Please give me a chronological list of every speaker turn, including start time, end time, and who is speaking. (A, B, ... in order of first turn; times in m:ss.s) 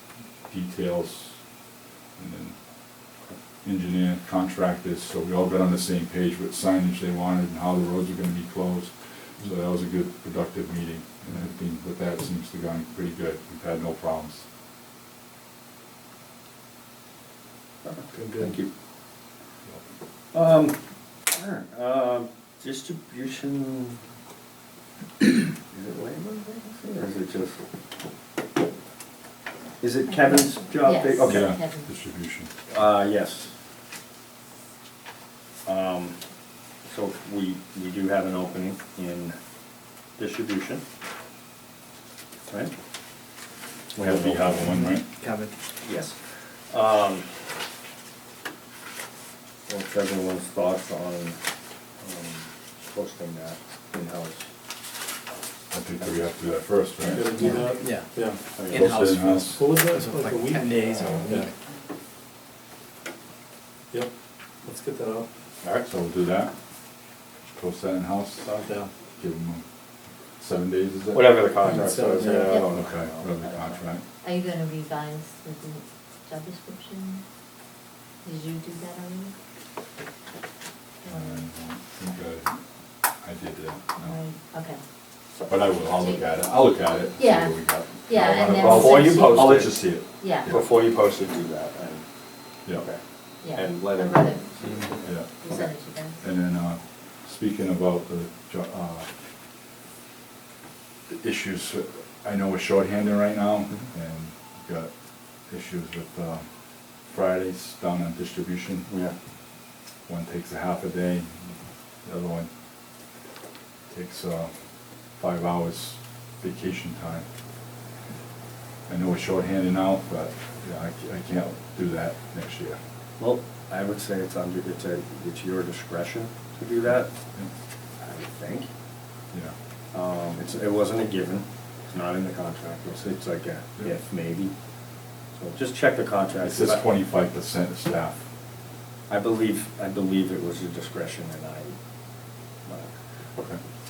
0:00.5-0:01.5 A
0:02.2-0:02.9 A
0:03.6-0:14.5 A
0:17.8-0:18.7 B
0:18.1-0:18.6 C
0:20.3-0:20.8 B
0:21.3-0:24.0 B
0:25.7-0:27.6 B
0:29.8-0:31.6 B
0:30.8-0:31.9 D
0:31.2-0:32.5 A
0:32.7-0:33.5 B
0:35.6-0:36.2 B
0:36.9-0:39.4 B
0:40.2-0:40.8 B
0:43.9-0:44.8 B
0:44.0-0:45.1 A
0:44.8-0:45.5 E
0:45.8-0:46.2 B
0:46.7-0:47.3 B
0:49.7-0:51.4 B
0:52.0-0:54.5 B
0:55.7-0:57.7 A
0:56.0-0:56.3 B
0:57.0-0:58.4 C
0:57.4-0:57.7 D
0:57.8-1:01.5 E
0:58.6-0:58.9 B
0:58.7-0:59.7 A
0:59.5-1:01.4 C
1:04.6-1:05.3 C
1:05.7-1:06.5 A
1:07.6-1:08.5 A
1:08.4-1:08.9 C
1:09.2-1:09.6 A
1:10.4-1:11.5 A
1:11.1-1:13.8 B
1:11.6-1:12.6 C
1:12.4-1:12.7 D
1:12.6-1:14.0 A
1:14.2-1:17.2 D
1:18.2-1:19.3 D
1:21.0-1:21.4 D
1:21.0-1:24.2 A
1:24.0-1:24.8 D
1:25.5-1:30.6 A
1:26.0-1:26.2 D
1:27.2-1:30.5 D
1:28.5-1:32.0 B
1:32.7-1:35.0 B
1:33.4-1:34.8 D
1:35.0-1:39.1 A
1:35.3-1:36.2 D
1:41.1-1:48.9 A
1:48.9-1:49.2 B
1:50.1-1:52.5 A
1:53.9-1:57.3 A
1:58.9-2:02.8 A
2:03.2-2:07.1 B
2:08.0-2:08.7 B
2:09.9-2:14.5 B
2:15.3-2:16.9 B
2:16.4-2:18.2 A
2:19.1-2:21.8 B
2:22.7-2:22.9 B